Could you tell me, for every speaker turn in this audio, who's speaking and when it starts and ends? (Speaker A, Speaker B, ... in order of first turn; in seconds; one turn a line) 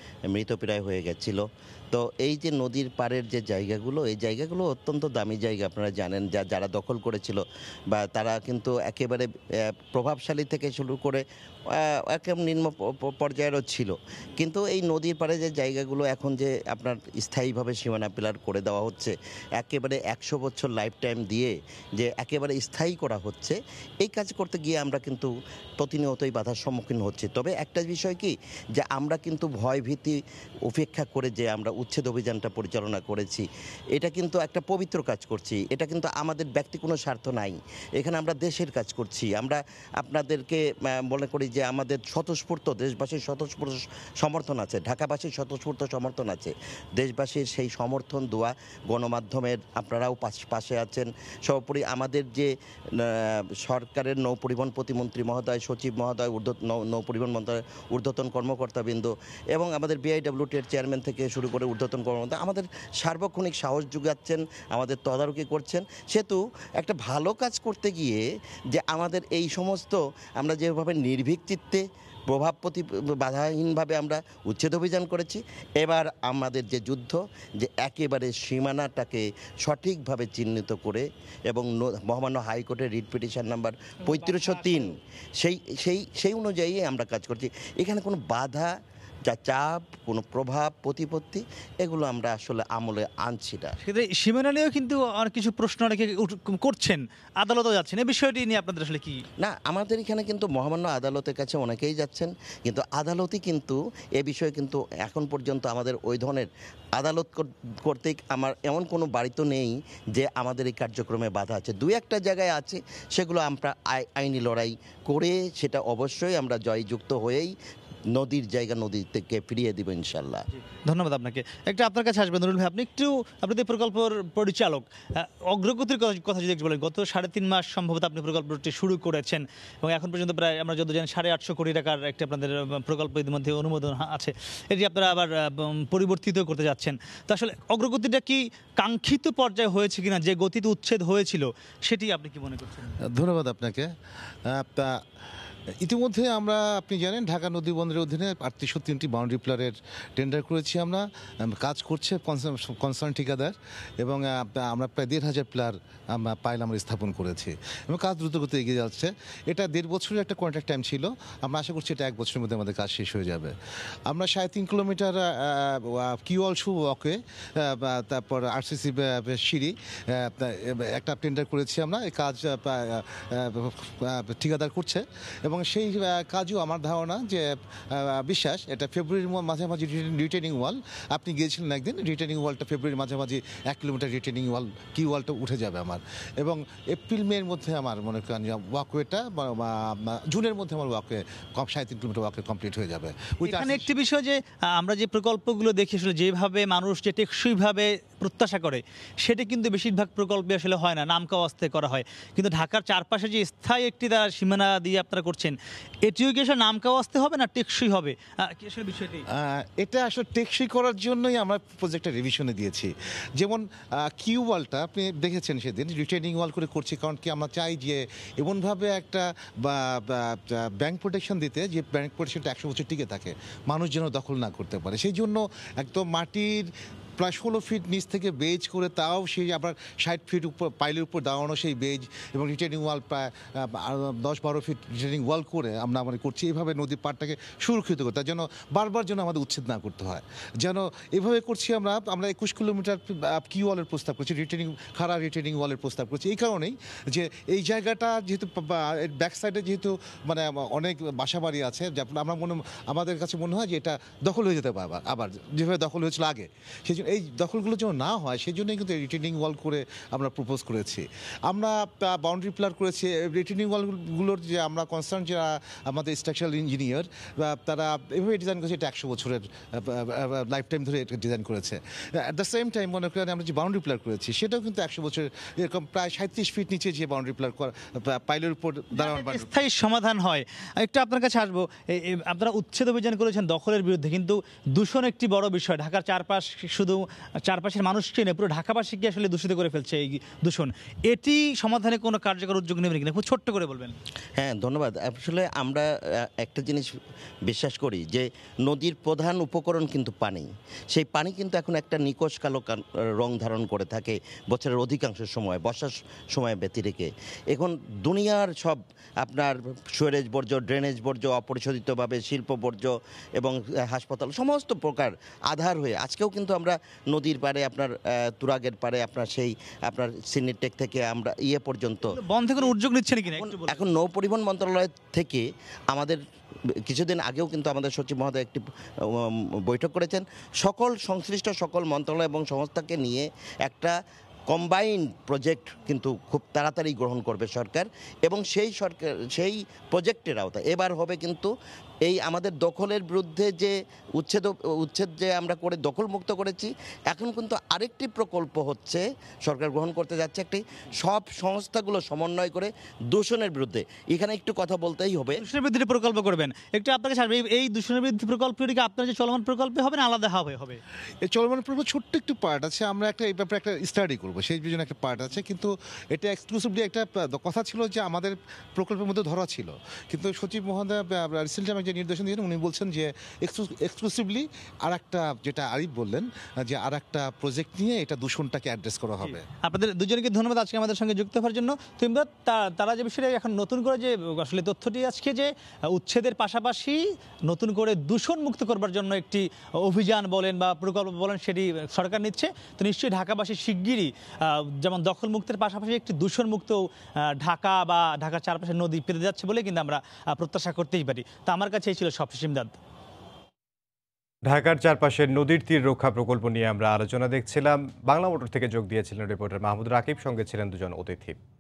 Speaker A: 0.3-88.7
Speaker B: 84.1-84.9
Speaker A: 89.3-93.8
Speaker B: 93.8-99.2
Speaker A: 99.4-117.5
Speaker A: 118.1-120.5
Speaker B: 120.5-143.0
Speaker C: 143.1-143.9
Speaker C: 144.5-145.0
Speaker C: 145.8-163.5
Speaker C: 164.1-193.9
Speaker B: 193.4-209.3
Speaker C: 209.3-279.5
Speaker B: 278.9-293.9
Speaker A: 294.4-296.9
Speaker A: 297.5-322.7
Speaker B: 322.1-323.8
Speaker A: 323.3-326.2
Speaker A: 326.9-333.9
Speaker A: 334.5-341.5
Speaker A: 342.1-355.4
Speaker B: 355.4-360.8
Speaker C: 361.3-379.4
Speaker B: 379.2-402.8
Speaker D: 404.5-411.4